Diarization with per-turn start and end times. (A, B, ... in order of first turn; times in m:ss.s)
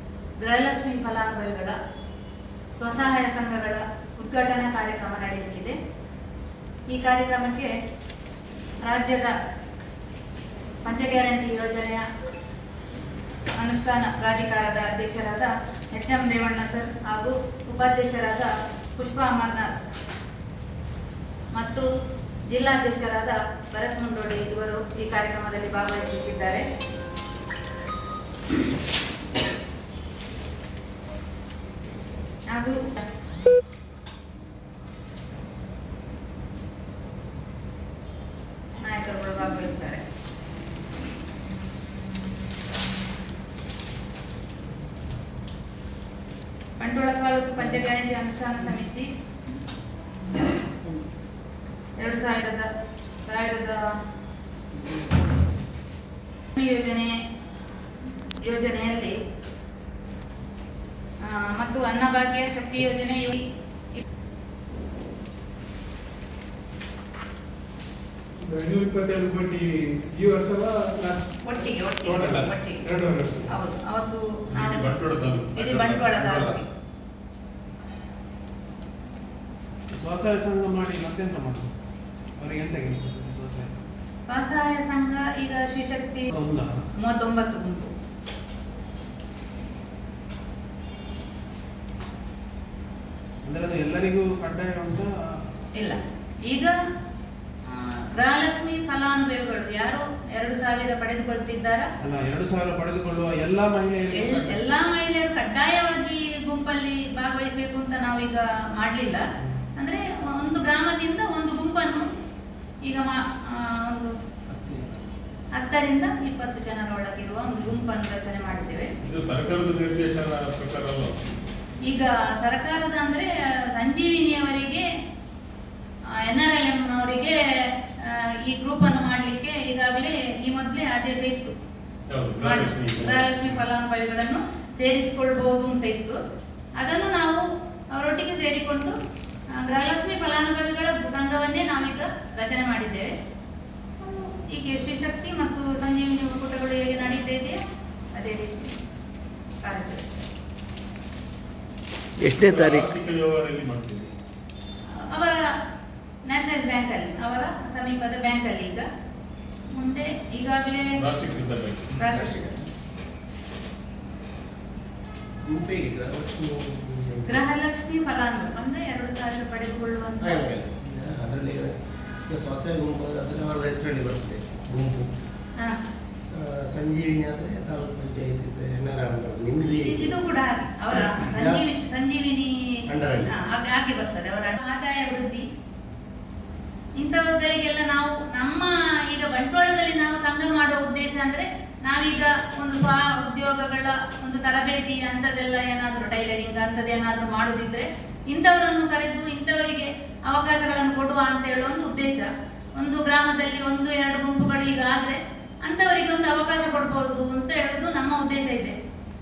0:00.4-0:01.8 A
0:02.8-0:05.8 A
0:06.9-0:07.7 A
0:08.8-0:09.4 A
0:10.8-0:12.0 A
0:13.6-0:19.8 A
0:21.6-0:21.9 A
0:22.5-0:26.7 A
0:32.5-0:33.0 A
0:38.8-0:40.0 A
0:46.8-0:49.1 A
0:52.0-0:52.7 A
0:53.2-0:53.9 A
0:56.5-0:57.1 A
0:58.4-0:59.2 A
1:01.2-1:04.0 A
1:08.4-1:11.2 B
1:11.4-1:12.9 A
1:12.1-1:13.5 B
1:13.5-1:14.9 A
1:14.5-1:16.6 C
1:15.6-1:16.7 A
1:19.9-1:21.7 D
1:22.4-1:23.9 D
1:24.3-1:26.3 A
1:26.3-1:26.7 D
1:27.0-1:27.9 A
1:33.4-1:35.1 D
1:35.7-1:36.8 A
1:37.7-1:41.9 A
1:42.0-1:44.6 D
1:44.1-1:49.2 A
1:49.8-1:52.1 A
1:52.8-1:54.1 A
1:54.5-1:54.9 E
1:55.6-1:58.9 A
1:59.0-2:01.2 C
2:01.8-2:04.9 A
2:06.2-2:11.6 A
2:12.1-2:13.6 C
2:12.4-2:16.2 A
2:16.8-2:19.0 A
2:19.5-2:23.1 A
2:24.0-2:27.6 A
2:28.1-2:28.7 A
2:29.6-2:30.2 A
2:32.2-2:32.9 E
2:32.2-2:34.1 C
2:35.0-2:35.4 A
2:36.3-2:38.9 A
2:39.7-2:41.0 A
2:41.0-2:42.0 C
2:42.0-2:42.5 A
2:42.1-2:42.6 E
2:45.4-2:47.5 E
2:47.3-2:50.4 A
2:50.2-2:51.8 E
2:52.3-2:55.1 E
2:56.3-3:00.2 E
2:59.6-3:05.5 A
3:00.9-3:01.6 E
3:02.9-3:03.3 E
3:07.0-3:28.8 A